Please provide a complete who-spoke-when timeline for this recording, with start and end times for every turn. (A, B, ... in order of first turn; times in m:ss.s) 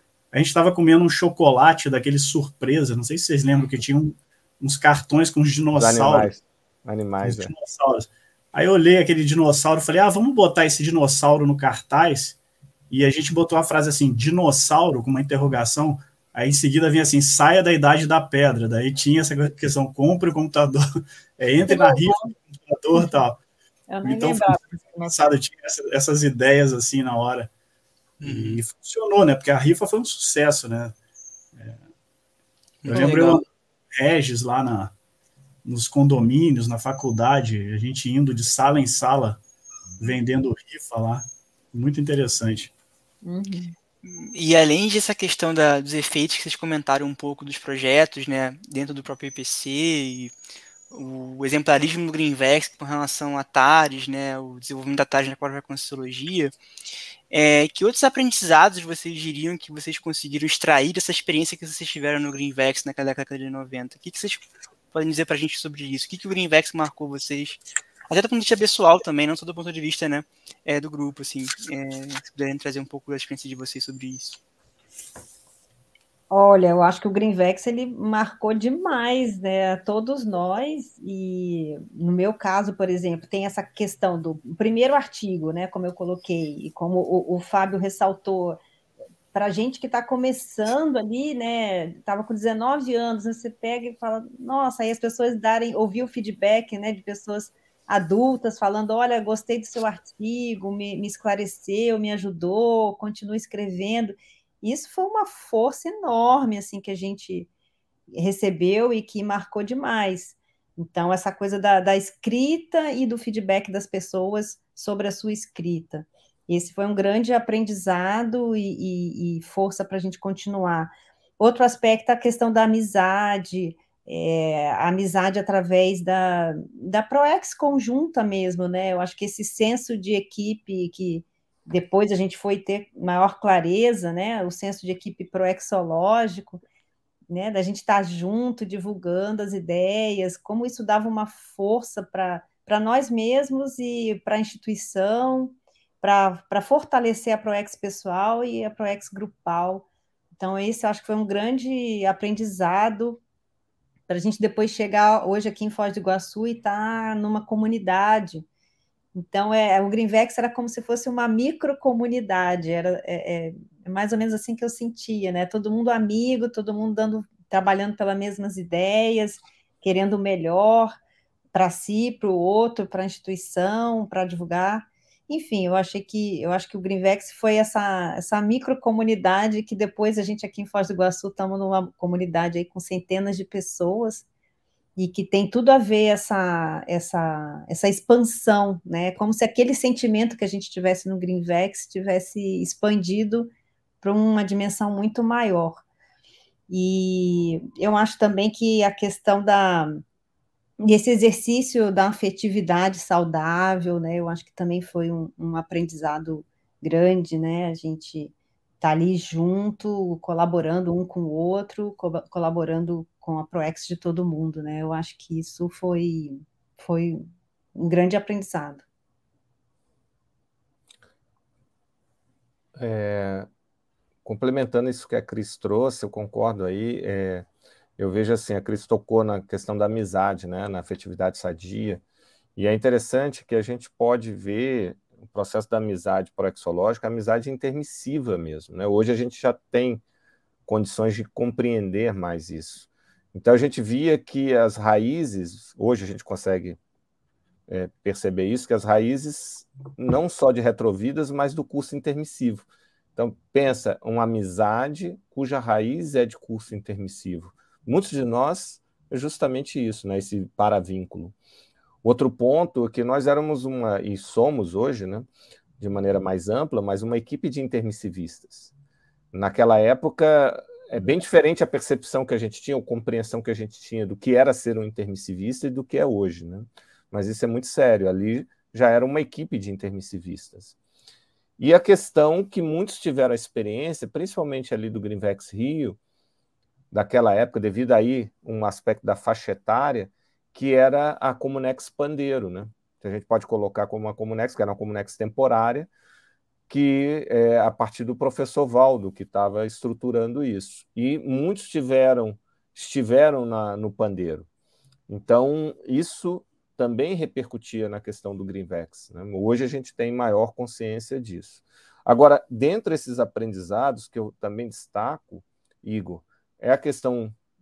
0:00.3-0:06.3 A
0:05.7-0:07.5 B
0:07.2-0:12.4 A
0:12.9-0:23.4 A
0:21.7-0:22.3 C
0:23.9-0:25.2 C
0:24.0-0:27.5 A
0:28.2-0:28.6 D
0:28.2-0:30.9 A
0:32.8-0:33.4 D
0:32.9-0:34.9 A
0:32.9-0:33.2 C
0:35.6-0:39.4 A
0:40.0-0:42.7 A
0:43.2-0:43.8 C
0:44.0-0:50.3 D
0:50.9-0:56.6 D
0:57.3-1:14.4 D
1:16.3-1:28.6 C
1:29.3-1:47.5 C
1:48.1-2:16.6 C
2:17.3-2:29.9 C
2:30.4-2:33.2 C
2:34.1-2:38.4 C
2:39.2-2:50.9 C
2:51.5-3:04.2 C
3:05.0-3:13.5 C
3:14.0-3:15.8 C
3:16.7-3:20.0 C
3:20.8-3:37.2 C
3:37.8-3:38.8 C
3:42.8-3:43.5 B
3:44.2-3:47.5 B
3:48.0-3:52.0 B
3:52.6-4:00.0 B
4:00.7-4:06.8 B
4:07.7-4:21.4 B
4:22.0-4:25.3 B
4:25.8-4:28.7 B
4:29.3-4:40.8 B
4:41.6-4:46.0 B
4:46.9-4:55.9 B
4:56.7-5:04.5 B
5:05.1-5:17.3 B